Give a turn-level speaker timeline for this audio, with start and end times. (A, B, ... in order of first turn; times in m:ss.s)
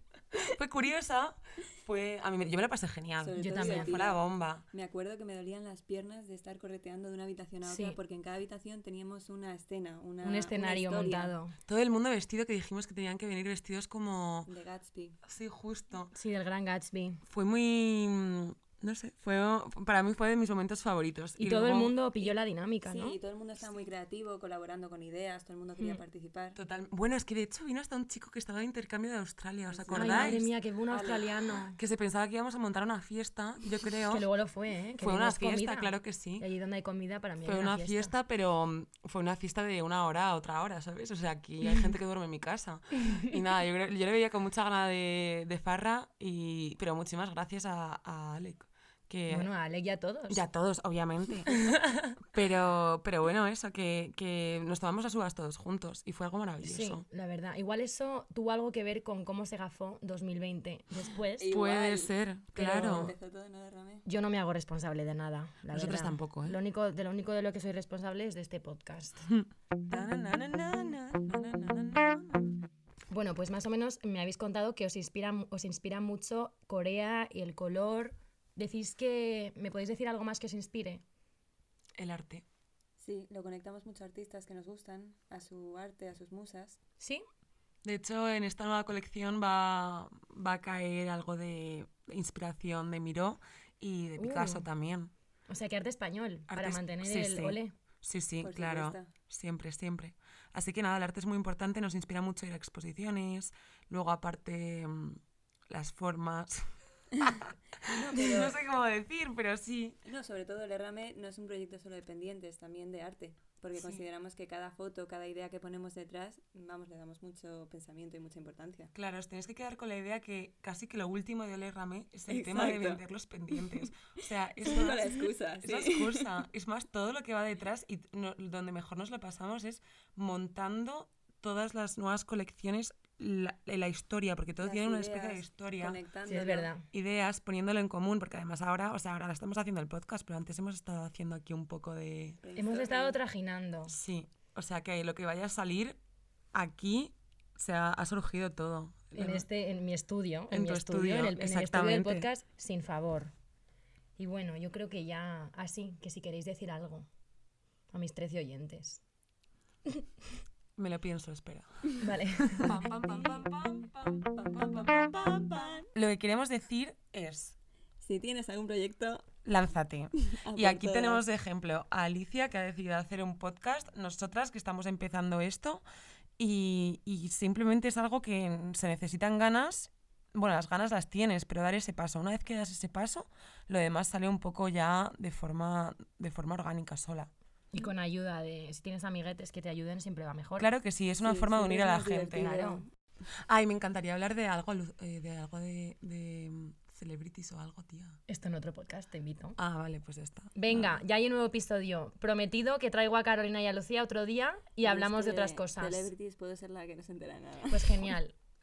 0:00.3-0:04.6 A
0:03.2-0:11.3 B
0:03.4-0:04.0 C
0:07.6-0:08.0 C
0:10.2-0:11.6 C
0:11.7-0:14.5 A
0:14.4-0:15.2 B
0:15.2-0:16.1 A
0:16.1-0:17.2 C
0:17.3-0:21.9 A
0:21.4-0:23.2 C
0:22.2-0:26.6 B
0:26.6-0:30.5 A
0:29.7-0:31.4 B
0:29.9-0:31.8 C
0:31.8-0:34.2 A
0:34.1-0:38.1 C
0:35.0-0:36.5 A
0:37.4-0:49.5 A
0:49.3-0:50.4 C
0:50.3-0:51.7 A
0:52.2-0:57.0 A
0:56.6-1:01.6 C
1:01.4-1:04.0 B
1:01.5-1:03.1 A
1:02.6-1:02.9 C
1:04.0-1:09.3 C
1:05.7-1:06.6 A
1:09.9-1:12.6 A
1:13.1-1:21.0 C
1:22.0-1:22.4 A
1:23.0-1:26.8 B
1:27.8-1:35.1 A
1:34.2-1:34.6 C
1:35.5-1:37.7 C
1:36.5-1:46.6 A
1:38.4-1:39.1 B
1:47.2-1:50.0 A
1:47.8-1:48.6 B
1:50.0-1:58.9 B
1:53.7-1:54.0 A
1:58.9-2:16.0 A
2:02.3-2:03.8 B
2:04.6-2:06.4 B
2:14.6-2:16.7 B
2:16.3-2:16.8 C
2:16.9-2:22.4 A
2:22.4-2:23.2 B
2:22.6-2:23.9 C
2:23.9-2:26.0 A
2:26.5-2:29.5 A
2:29.1-2:33.3 C
2:30.5-2:32.3 A
2:34.2-2:37.1 C
2:37.9-2:39.0 C
2:40.8-2:45.0 A
2:42.0-2:42.8 C
2:44.8-2:45.9 B
2:45.9-2:47.6 A
2:48.0-2:49.3 B
2:49.4-2:55.8 A
2:50.2-2:51.2 B
2:56.4-3:07.3 A
3:07.7-3:10.7 C
3:10.6-3:12.6 A
3:11.2-3:12.8 B
3:12.3-3:12.8 C
3:13.4-3:18.2 A
3:18.3-3:19.6 C
3:19.6-3:20.9 A
3:20.5-3:26.1 C
3:24.8-3:28.2 B
3:27.7-3:28.3 C